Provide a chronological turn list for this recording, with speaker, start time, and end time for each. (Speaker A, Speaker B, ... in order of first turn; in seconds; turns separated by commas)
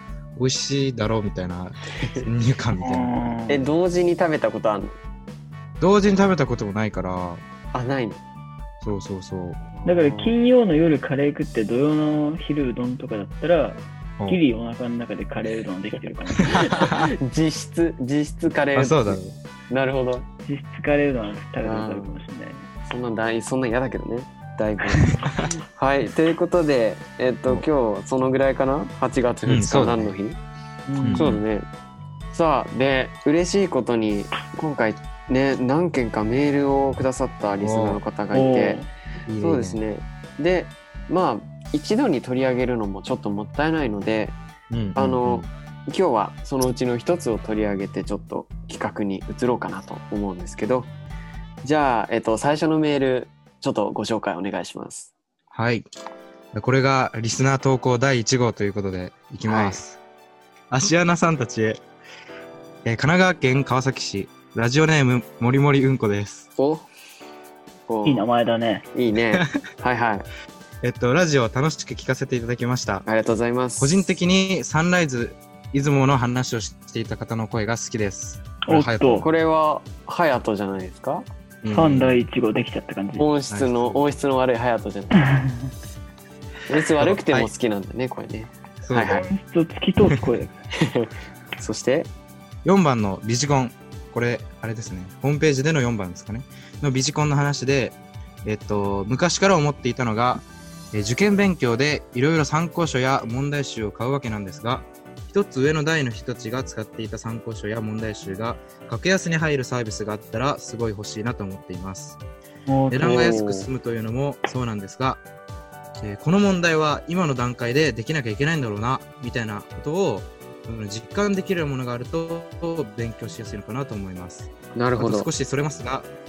Speaker A: 0.3-3.3, Speaker B: 2.8-3.7, Speaker C: 3.5-5.0, Speaker A: 5.8-7.4, Speaker C: 7.7-8.2, Speaker A: 8.8-9.6, Speaker C: 9.7-10.4, Speaker B: 9.8-16.9, Speaker C: 16.5-20.2, Speaker A: 18.7-19.4, Speaker B: 20.4-22.7, Speaker C: 21.6-22.2, Speaker C: 22.9-30.4, Speaker A: 29.4-30.1, Speaker B: 30.9-31.3, Speaker A: 31.0-31.4, Speaker C: 31.1-31.7, Speaker C: 32.3-38.8, Speaker A: 37.6-38.0, Speaker B: 38.3-38.9, Speaker A: 39.2-39.8, Speaker C: 39.4-44.4, Speaker A: 44.7-45.5, Speaker C: 44.9-50.9, Speaker C: 51.6-55.1, Speaker A: 55.5-55.9, Speaker A: 56.5-60.0, Speaker C: 59.4-59.8, Speaker A: 60.7-61.8, Speaker A: 62.8-66.5, Speaker C: 66.5-66.8, Speaker C: 67.9-68.2, Speaker B: 68.0-68.8, Speaker C: 68.9-70.3, Speaker A: 70.8-73.0, Speaker C: 73.0-74.1, Speaker A: 73.8-79.3, Speaker B: 78.7-79.3, Speaker C: 79.2-81.2, Speaker A: 81.6-82.2, Speaker B: 81.7-83.3, Speaker C: 83.2-85.2, Speaker A: 83.5-84.1, Speaker B: 85.3-85.7, Speaker C: 86.7-89.3, Speaker A: 87.0-87.5, Speaker A: 88.8-89.2, Speaker B: 89.1-90.6, Speaker C: 90.8-92.1, Speaker A: 92.6-112.2, Speaker B: 112.7-113.7, Speaker A: 112.9-115.2, Speaker A: 116.0-126.1, Speaker C: 124.7-125.3